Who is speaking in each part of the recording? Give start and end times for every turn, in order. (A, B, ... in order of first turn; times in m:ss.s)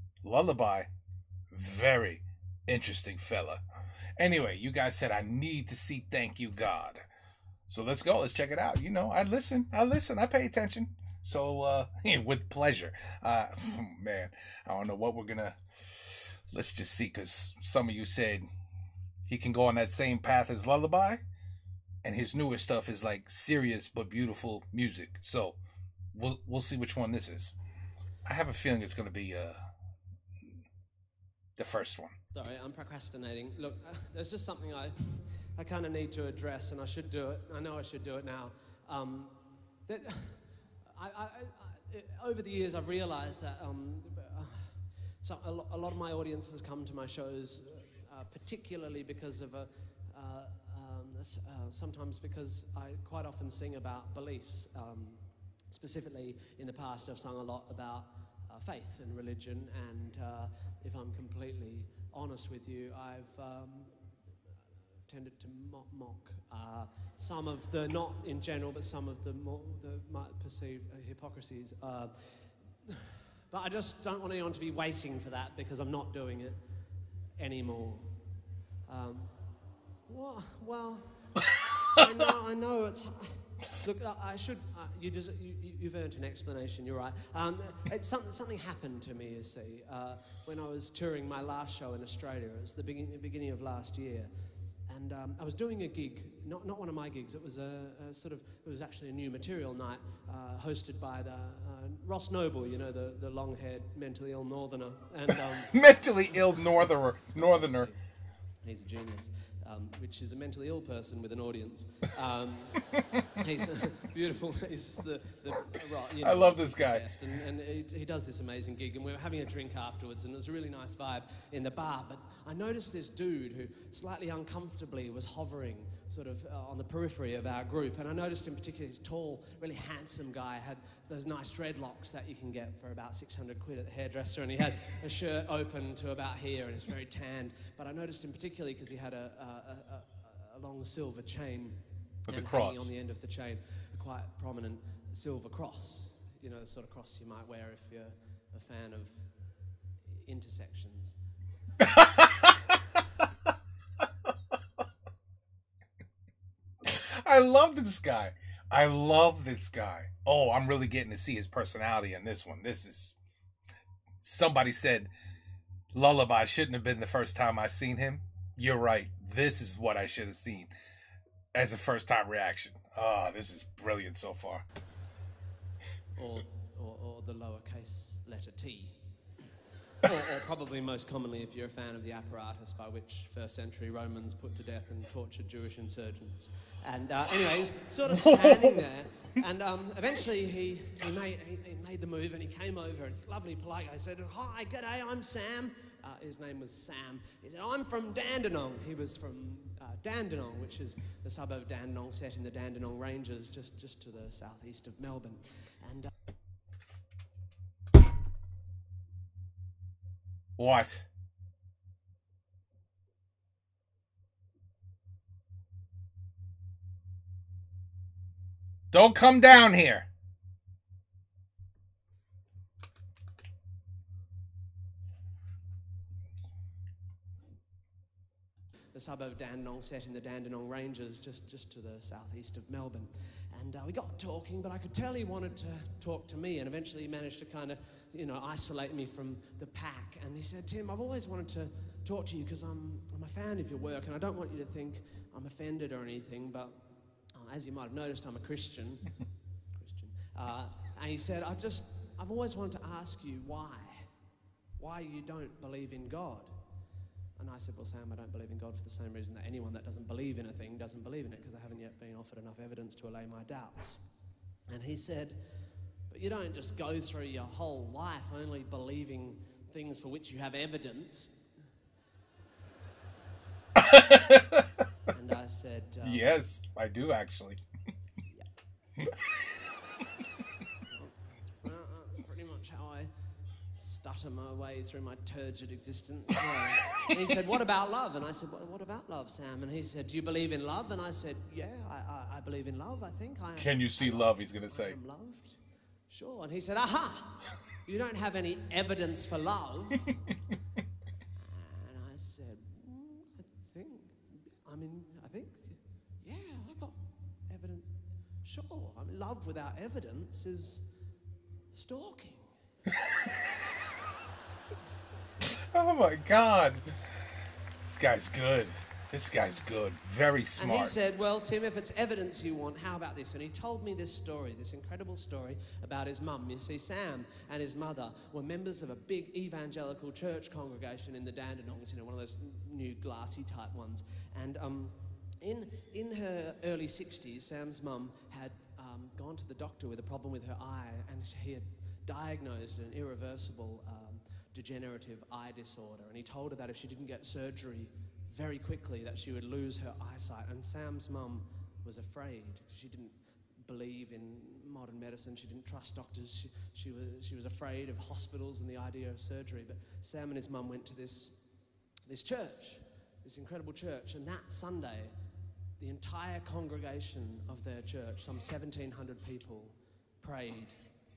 0:00.2-0:00.9 A
0:01.5-0:03.6 A
0:04.2-0:07.0 A
0:07.7-0:18.4 A
0:19.2-0:21.2 A
0:22.0-0:25.6 A
0:26.1-0:27.6 A
0:28.2-0:29.7 A
0:31.6-0:32.2 A
0:32.3-1:04.1 B
1:05.1-1:16.6 B
1:17.4-1:18.1 B
1:18.9-1:19.4 B
1:20.1-1:21.3 B
1:21.9-1:34.3 B
1:34.9-1:45.9 B
1:45.7-1:47.9 A
1:47.3-1:48.0 B
1:48.6-2:29.2 B
1:56.2-1:57.1 A
2:22.3-2:22.9 A
2:30.1-2:31.2 B
2:31.8-2:32.7 A
2:36.8-2:43.1 A
2:44.2-2:45.1 A
2:45.9-2:50.7 A
2:51.5-2:54.7 A
2:56.2-2:59.0 B
3:00.0-3:26.1 B
3:30.6-3:31.1 A
3:38.9-3:40.1 A
3:48.9-4:06.8 B
4:07.3-4:09.1 B
4:09.7-4:14.1 B
4:14.8-4:16.5 B
4:17.4-4:24.0 B
4:24.7-4:25.4 B
4:26.1-4:31.4 B
4:33.8-4:34.6 A
4:35.1-4:36.2 B
4:36.0-4:37.6 A
4:40.9-4:43.1 B
4:43.7-4:55.6 B
4:53.6-4:55.0 A
4:56.1-5:00.3 B
5:01.4-5:07.9 B
5:08.4-5:10.9 B
5:11.7-5:12.5 B
5:13.0-5:13.3 A
5:15.4-5:16.9 A
5:17.8-5:21.0 A
5:20.6-6:01.4 B
6:02.1-6:05.1 B
6:05.8-6:10.8 B